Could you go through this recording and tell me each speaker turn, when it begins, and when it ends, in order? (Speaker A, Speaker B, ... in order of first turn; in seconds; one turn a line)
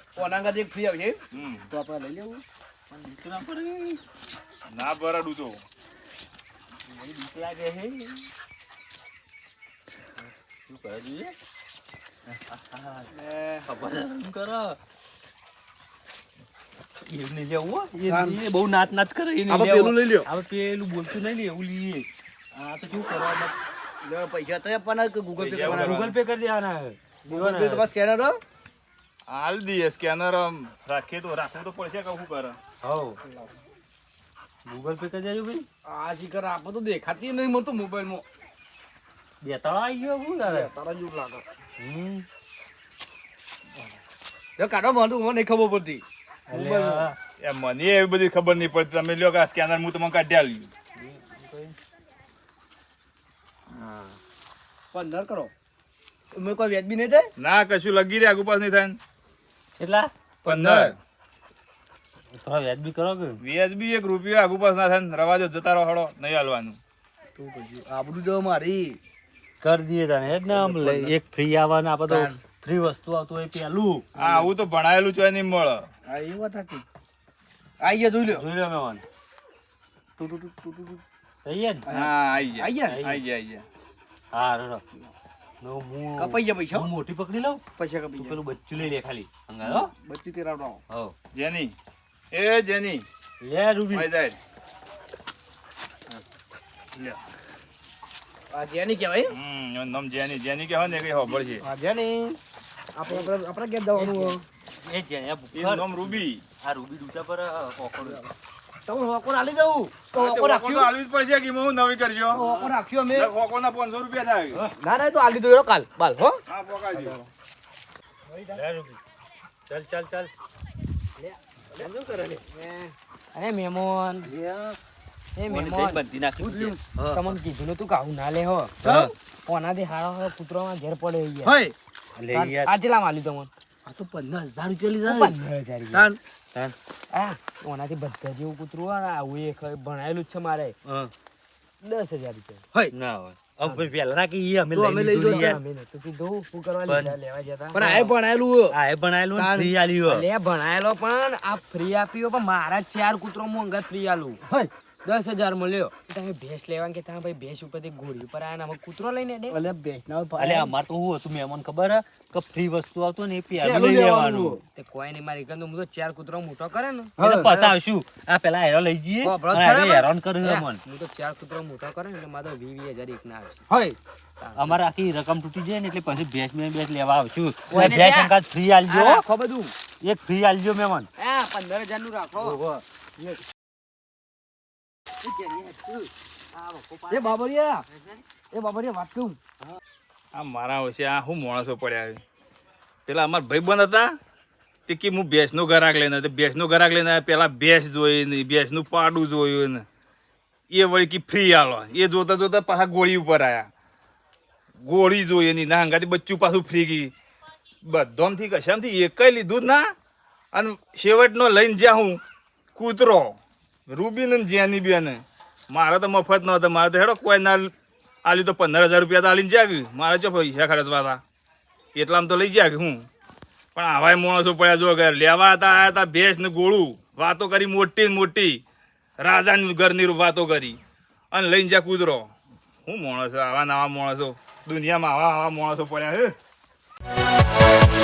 Speaker A: 0.1-2.4
Speaker B: 1.3-1.7
Speaker C: 2.9-4.0
Speaker B: 4.7-5.6
Speaker C: 6.9-8.2
Speaker C: 10.2-11.3
Speaker C: 12.3-13.1
Speaker A: 13.1-13.7
Speaker C: 13.6-14.8
Speaker C: 17.1-23.5
Speaker A: 18.1-18.4
Speaker A: 19.5-20.3
Speaker A: 24.0-26.1
Speaker B: 25.4-26.1
Speaker C: 25.6-27.9
Speaker A: 27.2-28.4
Speaker B: 29.3-32.6
Speaker C: 32.8-33.2
Speaker A: 33.2-33.5
Speaker C: 34.6-35.6
Speaker A: 35.8-38.2
Speaker C: 39.4-40.7
Speaker A: 40.4-41.4
Speaker C: 41.8-42.2
Speaker A: 44.6-47.1
Speaker C: 46.5-47.1
Speaker B: 47.4-50.7
Speaker C: 51.0-51.8
Speaker C: 53.7-54.2
Speaker A: 54.9-55.5
Speaker A: 56.3-57.3
Speaker B: 57.4-59.0
Speaker C: 59.8-60.1
Speaker A: 60.4-60.9
Speaker B: 60.4-61.0
Speaker C: 62.4-63.4
Speaker B: 63.4-66.8
Speaker A: 67.3-69.0
Speaker C: 69.6-74.0
Speaker A: 70.5-71.2
Speaker A: 72.1-72.4
Speaker B: 74.1-75.9
Speaker A: 74.2-74.5
Speaker A: 76.1-76.8
Speaker A: 77.8-78.4
Speaker C: 78.3-79.0
Speaker A: 80.2-81.0
Speaker C: 81.4-81.8
Speaker A: 81.8-83.0
Speaker B: 81.9-83.6
Speaker C: 82.9-83.2
Speaker C: 84.3-84.8
Speaker C: 85.6-87.6
Speaker A: 86.2-86.9
Speaker A: 87.8-88.4
Speaker C: 88.2-89.9
Speaker A: 89.6-90.8
Speaker C: 90.9-91.1
Speaker B: 91.3-91.7
Speaker B: 92.3-93.0
Speaker C: 93.4-94.1
Speaker B: 93.9-94.4
Speaker A: 98.5-99.3
Speaker B: 99.3-101.7
Speaker A: 101.6-102.4
Speaker A: 103.0-104.4
Speaker C: 104.0-108.2
Speaker B: 105.5-106.4
Speaker A: 108.9-110.9
Speaker B: 110.1-112.4
Speaker A: 112.3-113.3
Speaker C: 112.3-112.7
Speaker B: 113.1-114.6
Speaker A: 114.8-116.4
Speaker B: 116.5-117.2
Speaker A: 118.3-118.6
Speaker C: 118.5-119.0
Speaker C: 119.7-120.3
Speaker C: 121.8-122.4
Speaker A: 122.6-122.9
Speaker D: 123.3-124.3
Speaker C: 124.2-124.8
Speaker D: 125.3-126.0
Speaker C: 125.5-127.4
Speaker A: 126.4-126.8
Speaker D: 127.1-128.7
Speaker C: 128.8-129.1
Speaker A: 128.8-129.1
Speaker D: 129.4-131.5
Speaker A: 131.4-131.7
Speaker C: 132.2-132.7
Speaker D: 132.3-133.5
Speaker A: 133.8-135.3
Speaker D: 135.0-136.1
Speaker A: 135.9-136.2
Speaker D: 137.1-140.7
Speaker C: 140.8-141.1
Speaker D: 141.8-142.6
Speaker C: 142.9-145.6
Speaker A: 144.7-145.5
Speaker D: 145.2-148.1
Speaker C: 146.9-147.2
Speaker A: 147.7-148.7
Speaker C: 148.7-150.3
Speaker A: 149.3-149.7
Speaker D: 150.1-154.4
Speaker A: 154.4-154.7
Speaker D: 155.0-159.6
Speaker A: 159.5-160.7
Speaker C: 160.4-164.6
Speaker A: 163.6-164.6
Speaker D: 164.8-167.1
Speaker A: 167.2-167.7
Speaker C: 167.2-170.8
Speaker D: 169.2-173.6
Speaker A: 173.7-174.0
Speaker D: 174.4-174.8
Speaker C: 174.6-179.2
Speaker D: 177.7-178.3
Speaker D: 178.9-179.5
Speaker C: 180.0-181.1
Speaker D: 181.2-182.6
Speaker C: 182.4-182.8
Speaker C: 185.2-187.3
Speaker A: 187.1-187.8
Speaker C: 187.9-188.2
Speaker A: 188.5-189.4
Speaker B: 190.3-192.2
Speaker B: 193.1-194.1
Speaker B: 194.9-199.8
Speaker B: 200.7-203.7
Speaker B: 204.8-207.1
Speaker B: 207.8-209.9
Speaker B: 210.5-212.2
Speaker B: 212.8-213.4
Speaker B: 213.9-217.7
Speaker B: 218.2-221.2
Speaker B: 221.9-223.1
Speaker B: 223.7-228.6
Speaker B: 229.2-230.8
Speaker B: 231.3-232.3
Speaker B: 232.8-236.3